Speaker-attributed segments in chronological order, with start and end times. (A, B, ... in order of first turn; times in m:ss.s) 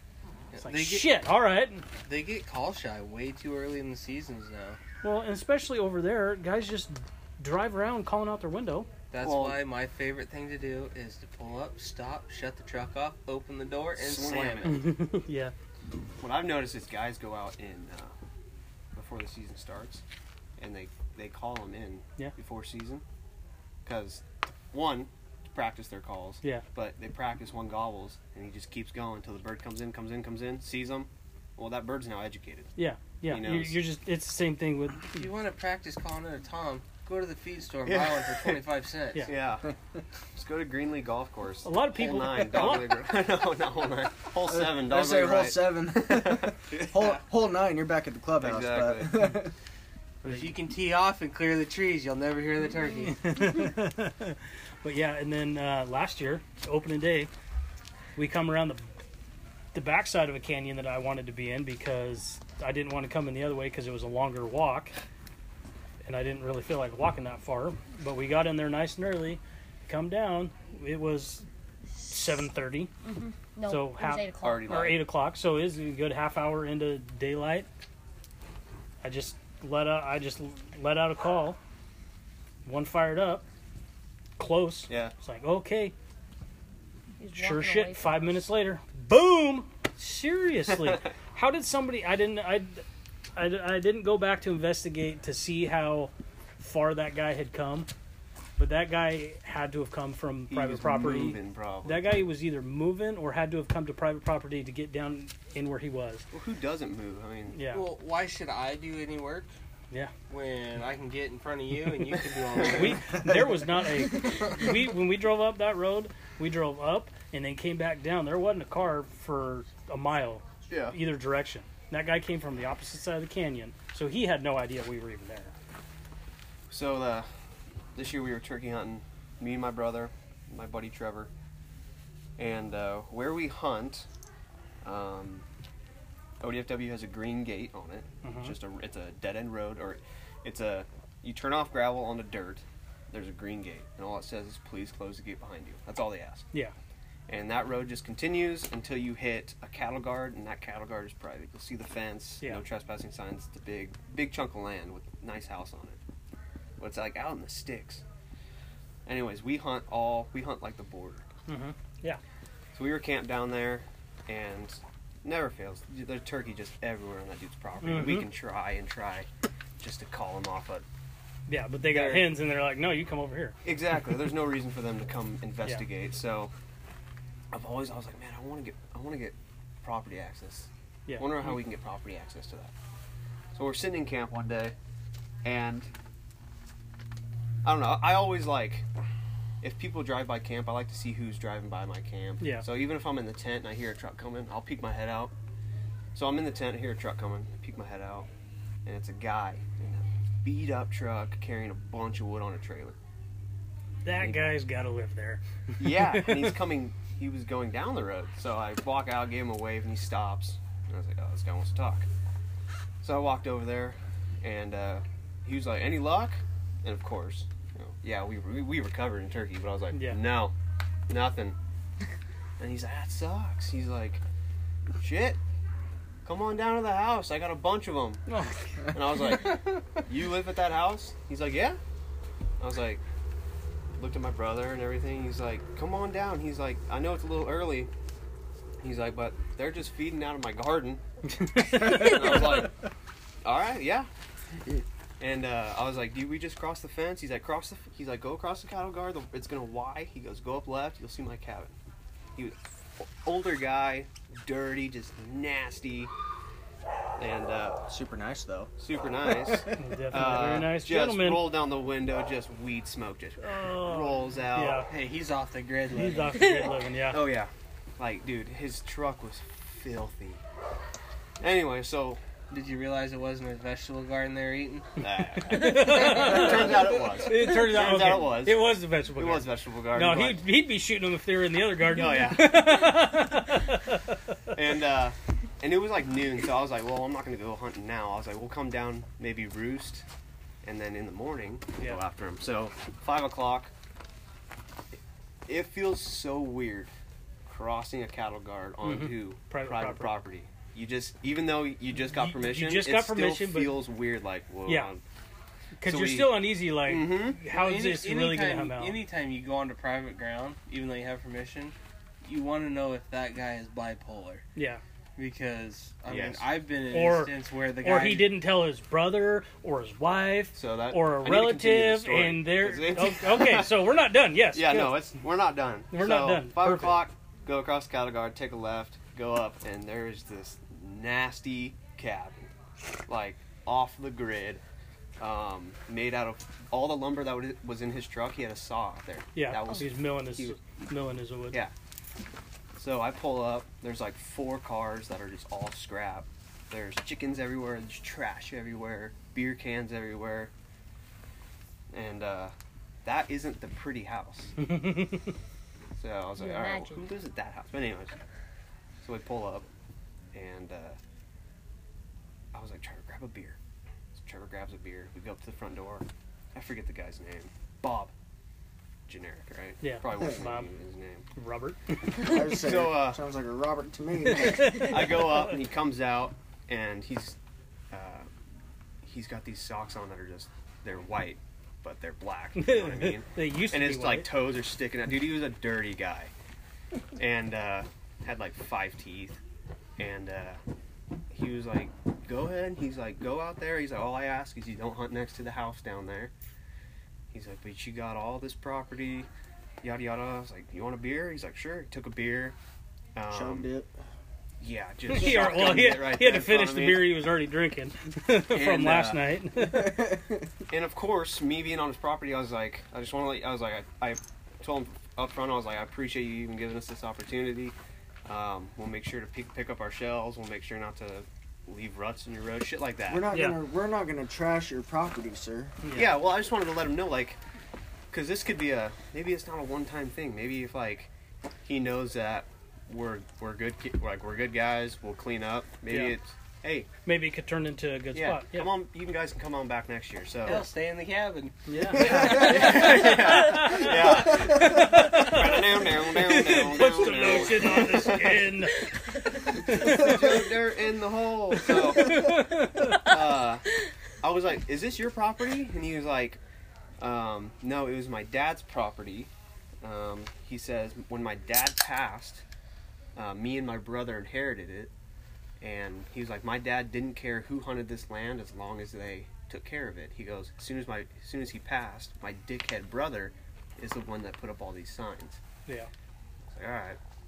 0:00.5-0:01.2 A
0:00.6-0:01.9 B
0:02.0-0:04.8 A
0:05.0-0:08.9 B
0:09.1-0:14.9 A
0:09.2-0:09.6 C
0:14.0-0:14.9 C
0:14.7-0:15.5 B
0:16.2-0:18.1 C
0:19.0-0:20.0 C
0:20.6-0:23.0 C
0:23.8-0:32.7 C
0:32.8-0:35.3 B
0:33.3-0:33.8 C
0:35.2-0:39.3 A
0:37.9-0:38.6 C
0:39.2-0:39.7 C
0:40.4-0:47.2 C
0:41.6-0:43.0 B
0:44.4-0:49.5 D
0:48.4-0:49.2 C
0:50.2-0:50.6 B
0:50.2-0:53.2 A
0:53.1-0:57.3 B
0:58.2-0:58.9 B
0:59.7-1:04.9 B
1:06.0-1:11.4 B
1:12.1-1:12.9 B
1:12.1-1:12.4 E
1:13.0-1:14.8 E
1:13.7-1:17.7 B
1:14.4-1:15.0 C
1:19.0-1:21.6 B
1:22.6-1:23.4 B
1:24.4-1:26.0 B
1:24.9-1:25.1 C
1:27.2-1:28.3 E
1:27.3-1:32.8 B
1:33.4-1:37.9 B
1:38.6-1:46.3 B
1:40.5-1:42.2 C
1:46.3-1:47.6 C
1:47.5-1:47.8 B
1:47.7-1:49.5 A
1:50.3-1:53.2 A
1:52.6-2:05.5 B
2:00.7-2:01.0 C
2:06.7-2:07.3 C
2:08.0-2:11.3 C
2:12.4-2:14.1 C
2:14.8-2:15.5 C
2:16.4-2:26.5 C
2:18.2-2:18.6 B
2:27.3-2:36.0 C
2:36.8-2:38.0 C
2:39.1-2:41.3 C
2:41.5-2:42.2 B
2:42.7-2:49.3 C
2:47.8-2:48.3 B
2:49.8-2:50.8 C
2:51.5-2:53.6 B
2:51.9-2:52.3 C
2:53.6-2:56.5 C
2:57.5-3:02.7 C
3:01.1-3:01.6 B
3:03.5-3:04.8 C
3:05.4-3:05.9 C
3:07.6-3:08.9 C
3:09.6-3:15.3 C
3:12.4-3:12.7 B
3:16.1-3:18.3 C
3:18.8-3:23.0 C
3:24.0-3:26.5 B
3:25.8-3:32.1 C
3:33.0-3:40.5 C
3:39.9-3:40.2 B
3:41.1-3:41.6 C
3:42.6-3:44.2 C
3:45.0-3:45.4 C
3:46.2-3:48.3 C
3:48.3-3:48.9 B
3:48.9-3:51.8 C
3:52.6-3:53.0 C
3:54.0-3:57.9 C
3:58.8-4:01.0 C
4:01.4-4:02.5 B
4:01.6-4:02.8 C
4:03.4-4:04.1 C
4:05.2-4:11.8 C
4:12.4-4:16.1 C
4:17.2-4:17.8 C
4:17.9-4:18.7 D
4:18.8-4:24.8 C
4:19.2-4:19.8 D
4:19.7-4:21.5 B
4:23.4-4:24.9 B
4:24.9-4:26.5 A
4:25.9-4:27.2 B
4:27.1-4:30.4 C
4:31.4-4:32.2 C
4:32.5-4:35.0 A
4:35.0-4:40.4 C
4:35.4-4:44.2 B
4:41.9-4:42.8 C
4:44.5-4:50.1 C
4:50.6-4:53.7 C
4:55.5-4:56.9 C
4:57.5-5:05.0 C
4:58.8-5:00.1 B
5:02.1-5:03.8 B
5:04.7-5:04.9 B
5:05.8-5:09.0 B
5:05.8-5:07.4 C
5:07.5-5:14.4 A
5:14.6-5:14.8 B
5:15.2-5:18.3 A
5:16.1-5:16.4 C
5:16.9-5:25.0 B
5:20.6-5:23.8 C
5:24.5-5:32.5 C
5:25.9-5:27.0 B
5:33.1-5:34.6 C
5:35.2-5:40.6 C
5:39.4-5:41.6 B
5:42.8-5:50.5 C
5:51.9-5:54.6 C
5:54.6-5:55.3 B
5:56.0-5:58.2 C
5:56.4-5:57.1 E
5:59.0-5:59.7 C
6:00.3-6:01.0 C
6:02.5-6:03.6 C
6:04.2-6:08.1 C
6:09.1-6:11.3 C
6:09.8-6:10.7 B
6:11.4-6:12.3 B
6:12.2-6:15.0 D
6:12.5-6:13.2 C
6:14.3-6:15.4 B
6:14.7-6:17.4 C
6:17.9-6:18.3 C
6:19.0-6:26.3 C
6:22.6-6:24.3 B
6:27.2-6:29.4 C
6:30.0-6:30.6 C
6:31.3-6:36.3 C
6:37.3-6:39.3 C
6:39.8-6:42.6 C
6:43.2-6:43.7 C
6:43.3-6:44.0 D
6:44.6-6:47.1 C
6:45.1-6:50.2 B
6:48.5-6:49.3 C
6:49.6-6:50.5 D
6:50.7-7:03.3 C
7:03.1-7:05.8 D
7:03.3-7:03.6 B
7:05.8-7:06.2 B
7:05.9-7:07.4 C
7:08.1-7:11.1 C
7:11.6-7:16.9 C
7:15.9-7:16.2 B
7:17.0-7:18.7 B
7:18.1-7:20.7 C
7:20.4-7:21.6 A
7:21.7-7:30.4 B
7:21.9-7:28.5 C
7:21.9-7:22.8 D
7:22.3-7:22.8 A
7:29.5-7:33.7 C
7:31.6-7:33.1 B
7:34.2-7:36.4 C
7:37.0-7:39.3 C
7:39.8-7:42.4 C
7:43.2-7:44.9 C
7:45.6-7:55.4 C
7:56.5-7:57.0 C